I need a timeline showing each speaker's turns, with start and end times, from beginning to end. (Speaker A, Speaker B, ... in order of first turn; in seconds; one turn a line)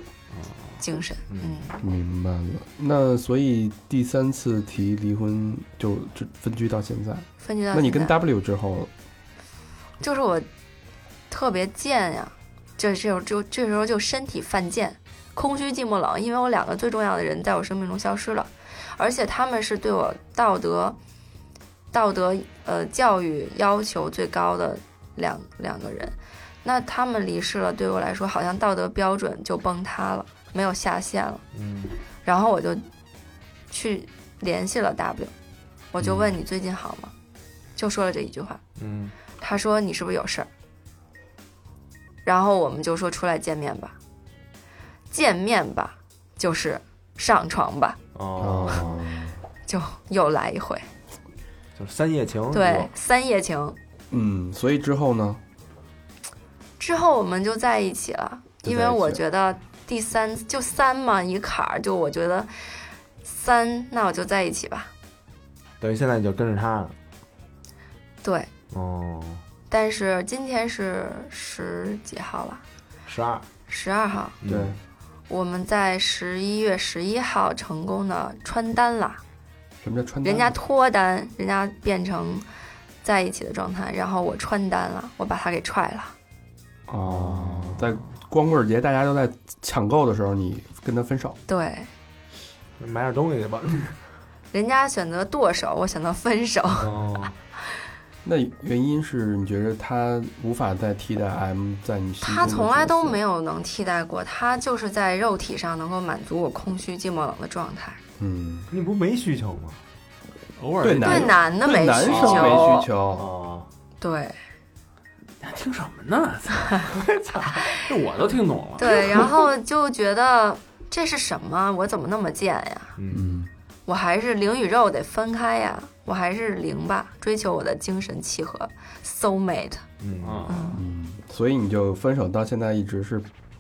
Speaker A: 0.3-0.8
Speaker B: 0.8-1.8
Speaker C: 1.3-1.6
Speaker D: 1.8-8.9
Speaker B: 7.4-8.2
Speaker B: 10.0-10.5
Speaker B: 11.3-21.0
Speaker B: 21.9-31.4
Speaker C: 31.5-32.0
Speaker B: 32.2-32.8
Speaker B: 33.7-35.3
Speaker B: 35.9-37.1
Speaker D: 36.0-36.3
Speaker B: 37.8-38.6
Speaker C: 38.8-39.1
Speaker B: 39.4-40.5
Speaker B: 42.2-44.0
Speaker B: 45.1-48.0
Speaker C: 48.1-49.1
Speaker D: 48.4-49.4
Speaker B: 49.7-50.9
Speaker C: 51.8-52.9
Speaker B: 52.5-53.8
Speaker D: 54.1-55.4
Speaker B: 56.8-62.5
Speaker D: 58.6-59.2
Speaker B: 63.2-64.9
Speaker C: 65.8-67.0
Speaker B: 68.2-68.5
Speaker C: 68.7-69.4
Speaker B: 69.7-72.6
Speaker C: 73.1-73.5
Speaker B: 73.7-74.4
Speaker C: 74.4-74.8
Speaker D: 74.5-74.8
Speaker B: 75.3-79.2
Speaker D: 79.8-80.5
Speaker B: 80.2-82.5
Speaker B: 83.0-86.2
Speaker D: 86.9-91.4
Speaker C: 87.0-87.8
Speaker B: 91.5-91.9
Speaker C: 92.8-94.0
Speaker B: 94.5-96.9
Speaker C: 96.8-97.3
Speaker D: 98.2-103.2
Speaker B: 102.2-108.0
Speaker D: 108.2-108.7
Speaker C: 108.7-109.8
Speaker A: 110.6-111.3
Speaker D: 110.8-113.3
Speaker B: 111.0-112.9
Speaker C: 112.0-113.7
Speaker B: 114.0-114.4
Speaker A: 115.4-117.0
Speaker C: 116.9-117.8
Speaker A: 117.8-119.0
Speaker B: 118.8-123.0
Speaker C: 118.9-119.3
Speaker C: 123.0-123.4
Speaker D: 123.1-123.5
Speaker B: 123.9-129.8
Speaker C: 130.0-130.6
Speaker A: 130.2-130.7
Speaker B: 130.5-130.8
Speaker D: 130.7-133.3